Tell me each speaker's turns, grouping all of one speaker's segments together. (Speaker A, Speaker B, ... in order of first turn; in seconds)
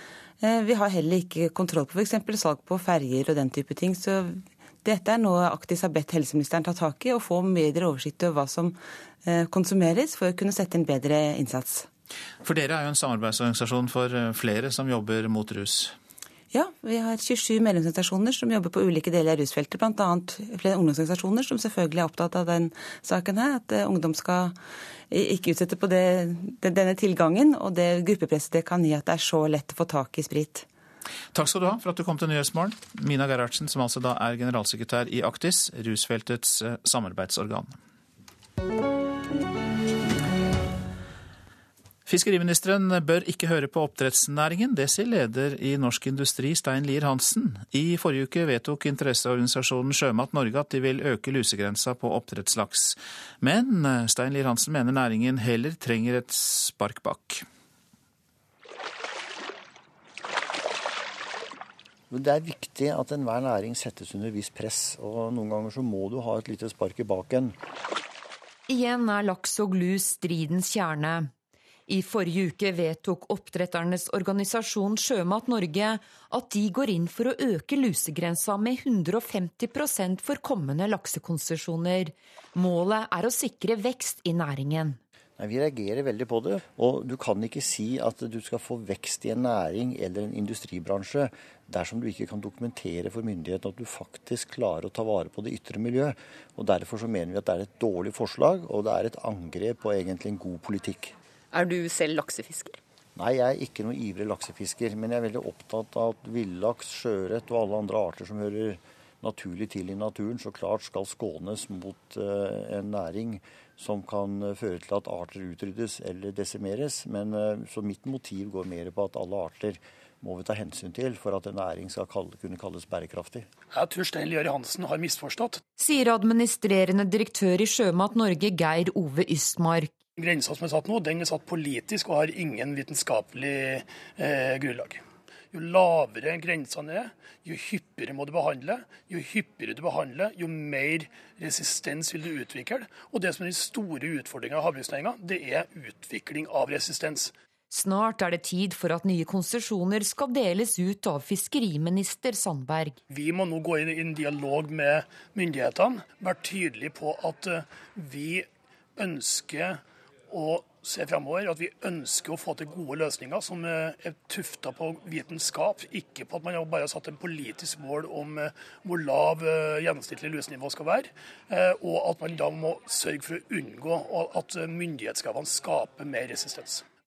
Speaker A: 0.4-11.9, 16.5-24.5, 25.1-30.7
Speaker B: 12.4-15.9, 31.3-37.8, 42.1-57.4
Speaker C: 62.1-67.5, 85.4-101.1, 103.2-123.4
Speaker D: 68.7-71.3, 71.9-85.0, 101.5-102.7, 125.8-129.9, 147.7-153.0
Speaker E: 123.7-125.6, 130.2-147.3, 153.1-176.8